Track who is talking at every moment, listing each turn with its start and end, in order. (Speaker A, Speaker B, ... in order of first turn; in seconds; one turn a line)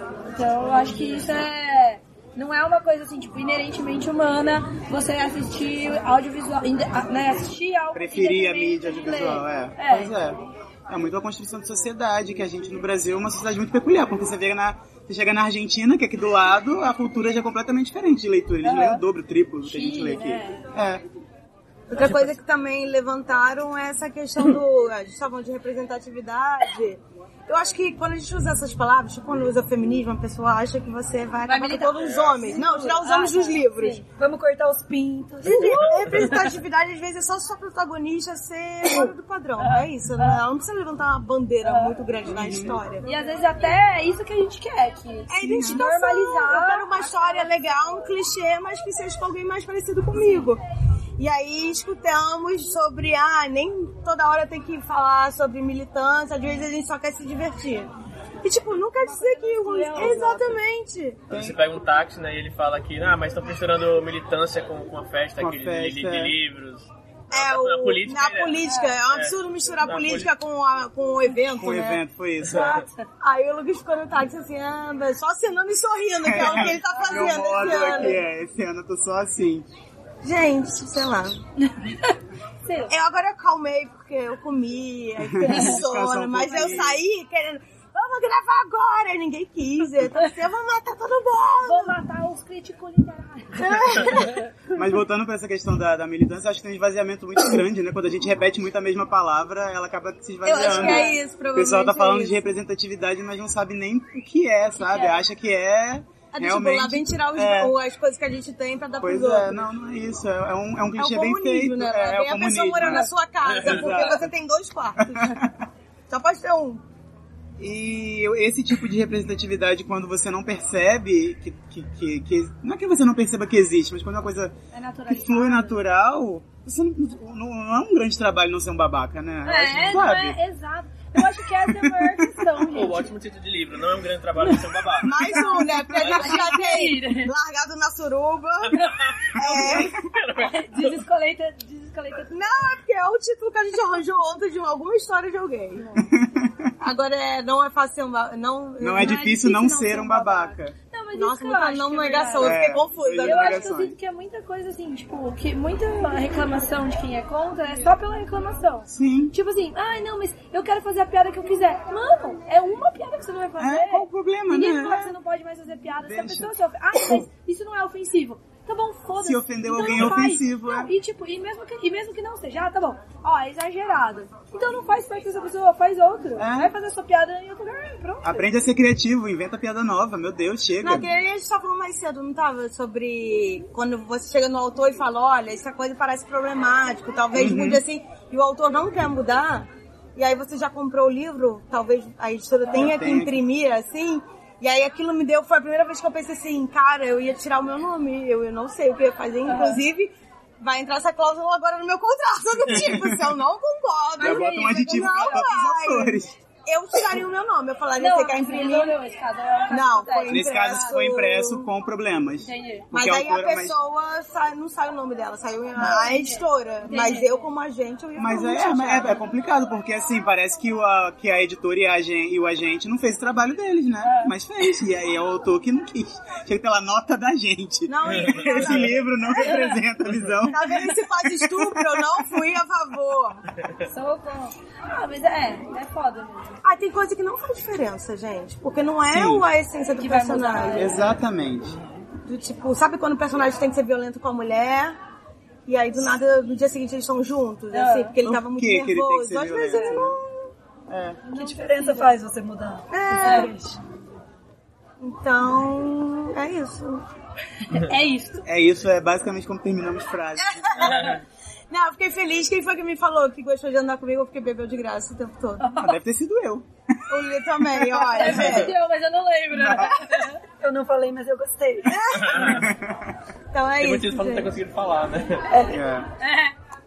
Speaker A: 0.3-10.2
Speaker B: 7.9-21.0
Speaker A: 18.6-19.0
Speaker A: 19.6-20.7
Speaker C: 21.9-34.0
Speaker A: 31.4-34.0
Speaker D: 32.0-32.6
Speaker E: 34.2-35.8
Speaker C: 35.4-43.1
Speaker A: 35.7-36.5
Speaker A: 39.6-40.4
Speaker A: 41.6-42.0
Speaker B: 42.3-42.8
Speaker A: 43.0-48.1
Speaker C: 45.3-50.6
Speaker B: 45.4-45.9
Speaker C: 51.2-57.9
Speaker C: 58.4-61.2
Speaker A: 59.0-60.5
Speaker B: 60.0-60.5
Speaker B: 61.3-61.6
Speaker D: 61.3-70.3
Speaker B: 65.4-66.3
Speaker C: 67.3-72.0
Speaker A: 68.6-69.0
Speaker B: 71.5-72.8
Speaker D: 72.5-72.8
Speaker A: 72.5-73.0
Speaker C: 73.2-78.2
Speaker B: 76.2-79.7
Speaker A: 76.7-78.2
Speaker C: 80.2-81.4
Speaker A: 81.6-82.9
Speaker C: 82.9-92.0
Speaker B: 85.2-87.0
Speaker A: 85.5-85.8
Speaker A: 86.4-86.9
Speaker A: 91.6-94.4
Speaker C: 93.6-94.4
Speaker B: 94.7-107.8
Speaker C: 100.5-102.5
Speaker A: 100.5-101.2
Speaker A: 104.8-105.2
Speaker C: 106.3-109.7
Speaker B: 109.0-114.3
Speaker C: 111.0-115.3
Speaker D: 113.5-114.0
Speaker B: 115.0-115.6
Speaker C: 116.1-116.8
Speaker B: 117.6-124.5
Speaker A: 124.7-125.8
Speaker B: 125.1-130.4
Speaker A: 129.4-133.1
Speaker B: 131.2-132.5
Speaker D: 132.7-135.4
Speaker C: 135.0-140.1
Speaker A: 135.3-137.3
Speaker D: 136.0-136.4
Speaker D: 138.8-141.0
Speaker A: 138.8-139.1
Speaker B: 139.4-140.0
Speaker A: 140.3-142.7
Speaker C: 142.3-145.9
Speaker A: 145.8-146.1
Speaker B: 146.0-146.7
Speaker C: 146.8-149.4
Speaker B: 148.8-150.8
Speaker A: 148.9-152.7
Speaker C: 151.1-153.7
Speaker B: 152.4-153.9
Speaker A: 153.2-178.5
Speaker B: 158.9-159.3
Speaker B: 163.6-165.2
Speaker B: 166.0-167.2
Speaker B: 169.2-170.9
Speaker B: 176.4-176.7
Speaker B: 178.2-181.1
Speaker C: 180.8-209.0
Speaker B: 187.3-187.8
Speaker B: 192.7-193.4
Speaker A: 199.4-199.8
Speaker B: 202.7-203.2
Speaker A: 204.2-205.5
Speaker B: 204.2-206.3
Speaker A: 208.0-210.9
Speaker C: 209.7-211.7
Speaker B: 210.3-213.8
Speaker A: 212.4-212.9
Speaker C: 212.9-219.2
Speaker B: 215.8-216.2
Speaker A: 215.8-217.5
Speaker B: 218.2-232.4
Speaker A: 224.0-224.3
Speaker C: 227.9-229.6
Speaker D: 228.1-229.0
Speaker A: 229.4-229.8
Speaker C: 230.5-233.4
Speaker A: 233.8-236.6
Speaker C: 236.6-241.1
Speaker B: 239.1-239.5
Speaker A: 240.0-241.1
Speaker B: 240.7-241.8
Speaker D: 241.7-242.1
Speaker C: 242.2-245.0
Speaker C: 245.7-250.5
Speaker A: 247.7-248.2
Speaker B: 248.2-250.2
Speaker A: 249.7-250.0
Speaker B: 250.9-251.2
Speaker A: 251.3-252.1
Speaker E: 251.3-253.8
Speaker C: 252.9-253.5
Speaker A: 253.2-253.5
Speaker C: 255.0-257.0
Speaker A: 257.6-258.5
Speaker B: 258.4-261.1
Speaker C: 260.4-261.2
Speaker D: 260.8-261.2
Speaker C: 261.7-265.6
Speaker A: 265.6-266.0
Speaker B: 265.8-268.6
Speaker C: 267.1-268.7
Speaker A: 268.1-270.4
Speaker B: 269.5-270.1
Speaker E: 270.6-272.0
Speaker C: 271.9-272.7
Speaker D: 272.1-272.7
Speaker B: 272.3-273.1
Speaker C: 273.5-274.5
Speaker D: 273.8-275.5
Speaker B: 275.6-276.1
Speaker A: 276.2-276.5